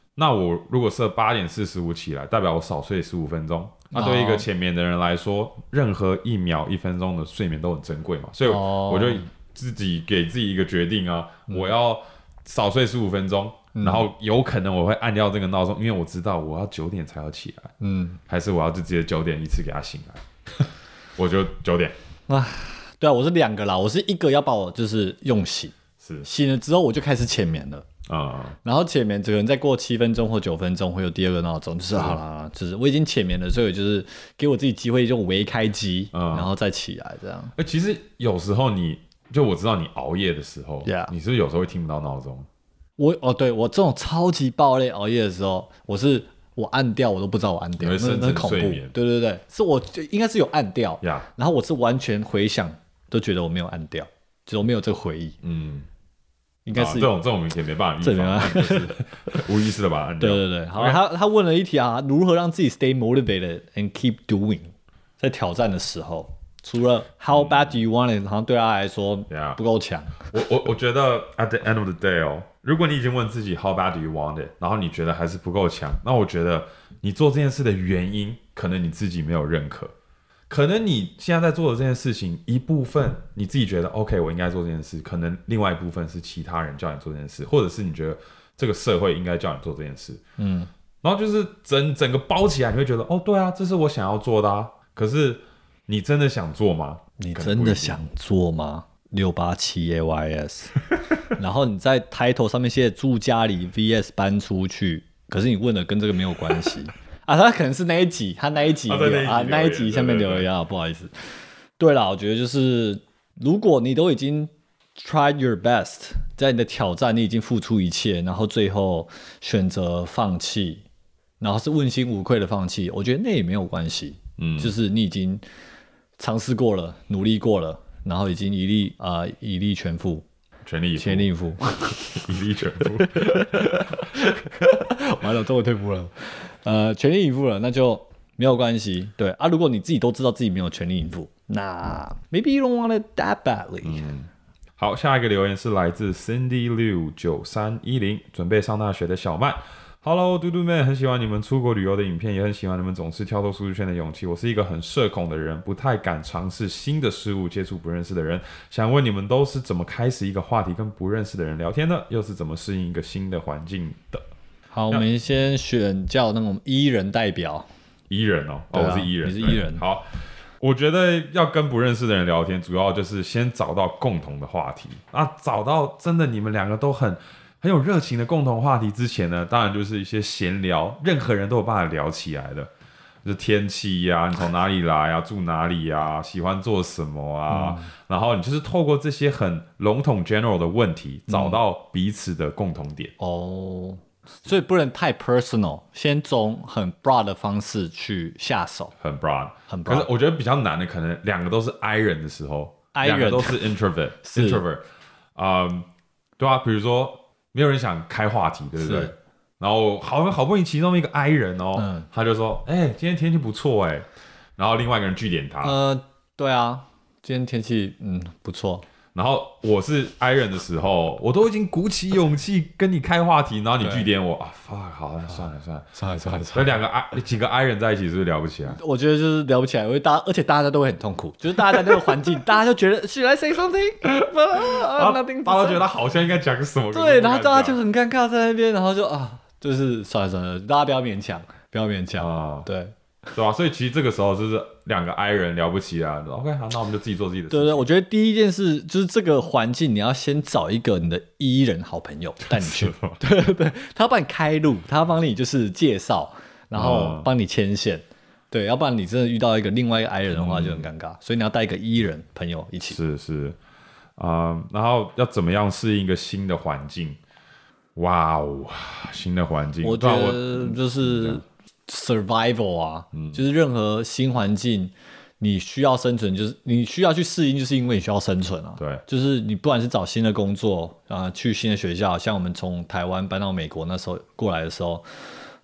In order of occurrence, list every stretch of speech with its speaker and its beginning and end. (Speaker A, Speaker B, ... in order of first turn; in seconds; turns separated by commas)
Speaker A: 0.2-17.7, Speaker B: 3.9-4.5, Speaker B: 8.4-9.3, Speaker B: 13.8-14.1, Speaker B: 17.8-18.2, Speaker A: 18.3-21.9, Speaker B: 22.3-27.9, Speaker A: 26.0-26.3, Speaker A: 28.1-28.6, Speaker B: 28.6-37.5, Speaker A: 31.9-32.2, Speaker A: 36.1-36.5, Speaker A: 37.6-42.5, Speaker B: 40.8-41.1, Speaker B: 43.0-55.4, Speaker A: 47.8-48.9, Speaker A: 51.0-51.3, Speaker A: 55.4-55.9, Speaker B: 56.6-57.2, Speaker A: 56.7-61.1, Speaker B: 58.0-59.4, Speaker B: 60.2-70.2, Speaker A: 67.3-67.7, Speaker A: 69.3-69.6, Speaker A: 70.3-79.9, Speaker A: 80.5-90.2, Speaker B: 90.4-90.7, Speaker A: 91.0-98.0, Speaker B: 97.2-100.8, Speaker B: 101.4-111.1, Speaker A: 108.9-110.5, Speaker B: 111.8-120.8, Speaker B: 121.4-125.4, Speaker A: 124.4-124.8, Speaker B: 126.2-130.2, Speaker A: 130.7-131.3, Speaker B: 131.0-132.2, Speaker A: 132.1-134.0, Speaker B: 133.0-144.1, Speaker A: 143.8-164.2, Speaker B: 164.7-167.7, Speaker A: 168.1-170.1, Speaker B: 168.7-169.8, Speaker A: 170.6-182.7, Speaker A: 183.2-193.1, Speaker B: 187.5-187.9, Speaker B: 191.3-191.6, Speaker B: 193.2-198.9, Speaker A: 199.0-204.8, Speaker B: 199.7-200.1, Speaker B: 202.9-203.6, Speaker B: 204.2-204.7, Speaker A: 205.4-205.9, Speaker A: 206.4-214.1, Speaker B: 208.8-209.1, Speaker B: 211.8-212.1, Speaker A: 214.6-215.8, Speaker B: 215.6-218.8, Speaker A: 219.2-225.9, Speaker B: 223.8-224.1, Speaker B: 225.3-226.8, Speaker A: 226.5-228.8, Speaker B: 228.7-235.9, Speaker A: 234.0-237.8, Speaker B: 236.9-242.9, Speaker A: 242.2-242.7, Speaker A: 243.3-247.9, Speaker B: 247.5-263.0, Speaker A: 252.5-253.2, Speaker A: 256.7-257.3, Speaker A: 260.3-260.9, Speaker A: 262.9-263.6, Speaker A: 264.2-267.2, Speaker A: 268.0-271.4, Speaker B: 269.8-285.1, Speaker A: 273.1-273.4